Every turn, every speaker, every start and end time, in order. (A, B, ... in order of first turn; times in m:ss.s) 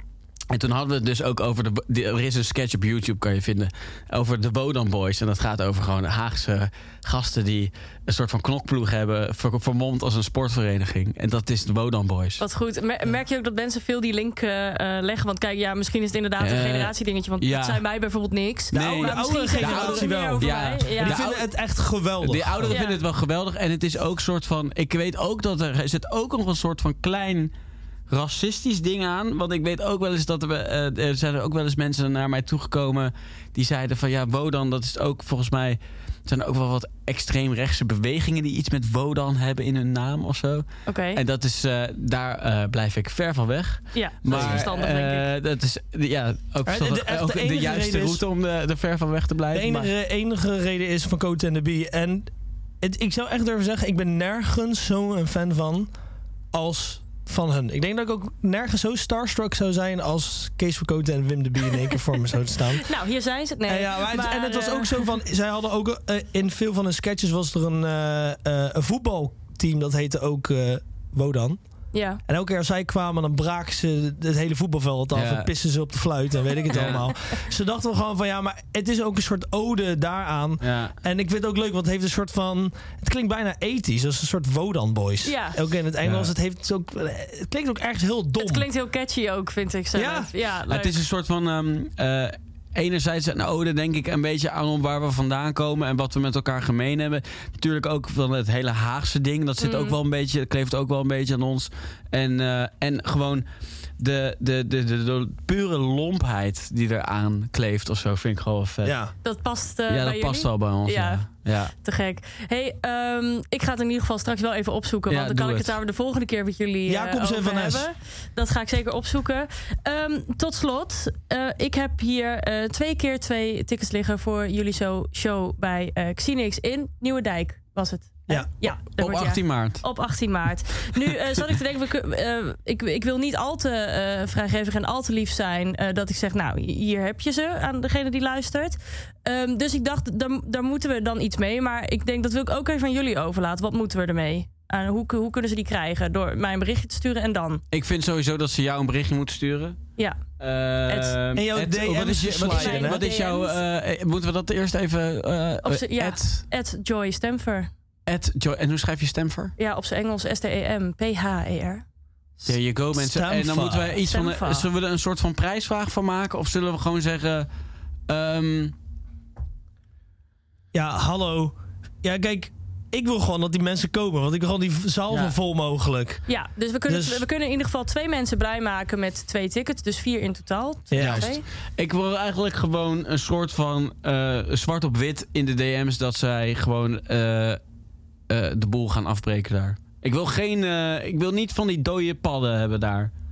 0:00.5-0:12.4 A
0:12.4-0:21.2 B
0:16.4-0:17.8 A
0:18.7-0:21.5 A
0:18.7-0:22.8 C
0:22.2-0:27.5 A
0:22.7-0:23.0 B
0:28.1-0:49.9 A
0:40.9-0:41.2 B
0:43.9-0:45.3 B
0:44.3-0:44.7 C
0:46.7-0:48.2 C
0:49.5-0:55.9 C
0:56.5-1:02.9 C
1:02.8-1:05.1 B
1:03.7-1:11.6 C
1:11.9-1:12.2 B
1:12.3-1:28.7 C
1:15.1-1:15.5 A
1:16.7-1:17.1 A
1:20.6-1:21.0 A
1:25.2-1:25.6 B
1:26.0-1:26.3 A
1:28.4-1:31.0 B
1:30.0-1:30.3 C
1:30.7-1:43.4 A
1:39.6-1:40.0 B
1:44.0-1:49.0 A
1:48.8-1:49.1 C
1:49.2-1:51.2 B
1:49.9-1:51.7 A
1:51.8-2:27.6 B
1:55.1-1:55.8 A
1:56.9-1:57.9 C
2:08.3-2:09.8 A
2:27.7-2:29.8 A
2:30.4-2:36.4 A
2:30.9-2:31.2 B
2:31.4-2:33.0 C
2:32.5-2:33.6 B
2:35.6-2:37.7 B
2:38.1-2:39.5 A
2:39.6-2:41.8 B
2:42.5-2:47.5 A
2:43.0-2:44.0 C
2:44.0-2:44.7 B
2:48.1-2:48.7 A
2:50.7-2:56.2 C
2:56.3-3:01.4 B
2:56.9-2:57.2 C
3:00.9-3:01.3 C
3:01.0-3:07.6 A
3:08.3-3:13.1 A